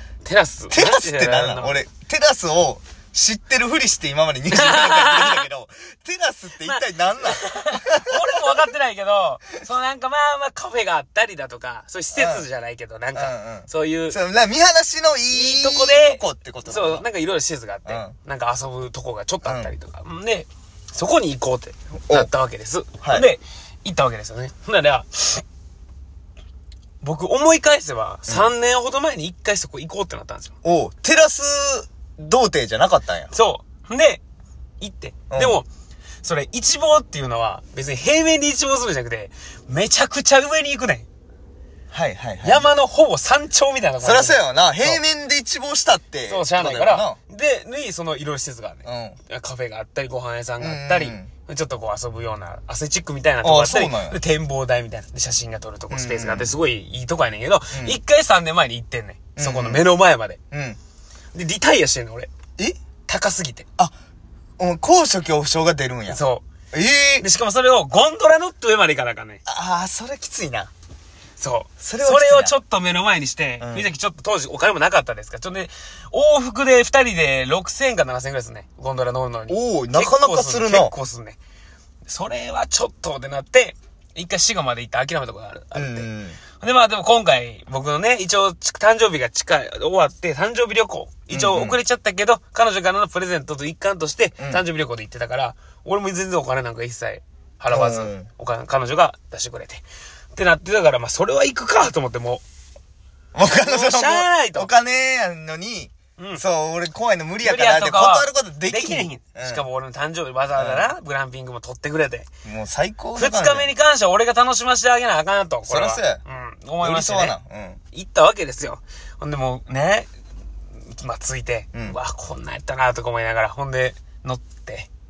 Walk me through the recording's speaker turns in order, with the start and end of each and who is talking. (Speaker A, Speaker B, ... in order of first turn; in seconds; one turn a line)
Speaker A: 0.2-1.8
Speaker B: 0.7-8.4
Speaker A: 4.5-5.4
Speaker A: 6.6-14.2
Speaker B: 12.1-12.5
Speaker B: 13.1-17.0
Speaker A: 15.3-25.4
Speaker B: 17.9-18.1
Speaker B: 19.4-19.7
Speaker B: 23.0-23.3
Speaker A: 27.0-30.5
Speaker B: 30.6-33.3
Speaker A: 33.3-34.2
Speaker A: 34.8-35.7
Speaker B: 35.3-35.6
Speaker A: 36.2-41.0
Speaker B: 41.9-42.7
Speaker A: 42.4-45.0
Speaker B: 44.0-47.2
Speaker A: 46.3-60.4
Speaker B: 48.8-49.2
Speaker B: 50.6-51.3
Speaker B: 53.4-54.2
Speaker B: 55.9-56.5
Speaker B: 57.7-58.0
Speaker B: 59.4-59.8
Speaker B: 60.5-60.8
Speaker A: 61.3-62.3
Speaker A: 63.0-63.6
Speaker B: 64.6-66.2
Speaker A: 66.1-66.4
Speaker B: 66.7-67.2
Speaker A: 67.2-69.4
Speaker B: 69.5-70.7
Speaker A: 71.4-81.4
Speaker B: 71.8-72.5
Speaker B: 73.6-73.9
Speaker B: 79.5-80.9
Speaker A: 82.0-86.1
Speaker B: 85.7-86.4
Speaker A: 86.6-102.4
Speaker B: 91.3-91.8
Speaker B: 97.7-98.3
Speaker B: 103.3-109.7
Speaker A: 103.6-104.7
Speaker A: 106.2-106.4
Speaker A: 107.4-112.3
Speaker B: 110.5-110.9
Speaker B: 112.4-113.7
Speaker A: 113.1-117.3
Speaker B: 115.7-116.2
Speaker B: 116.8-117.8
Speaker A: 117.9-120.1
Speaker A: 120.8-124.9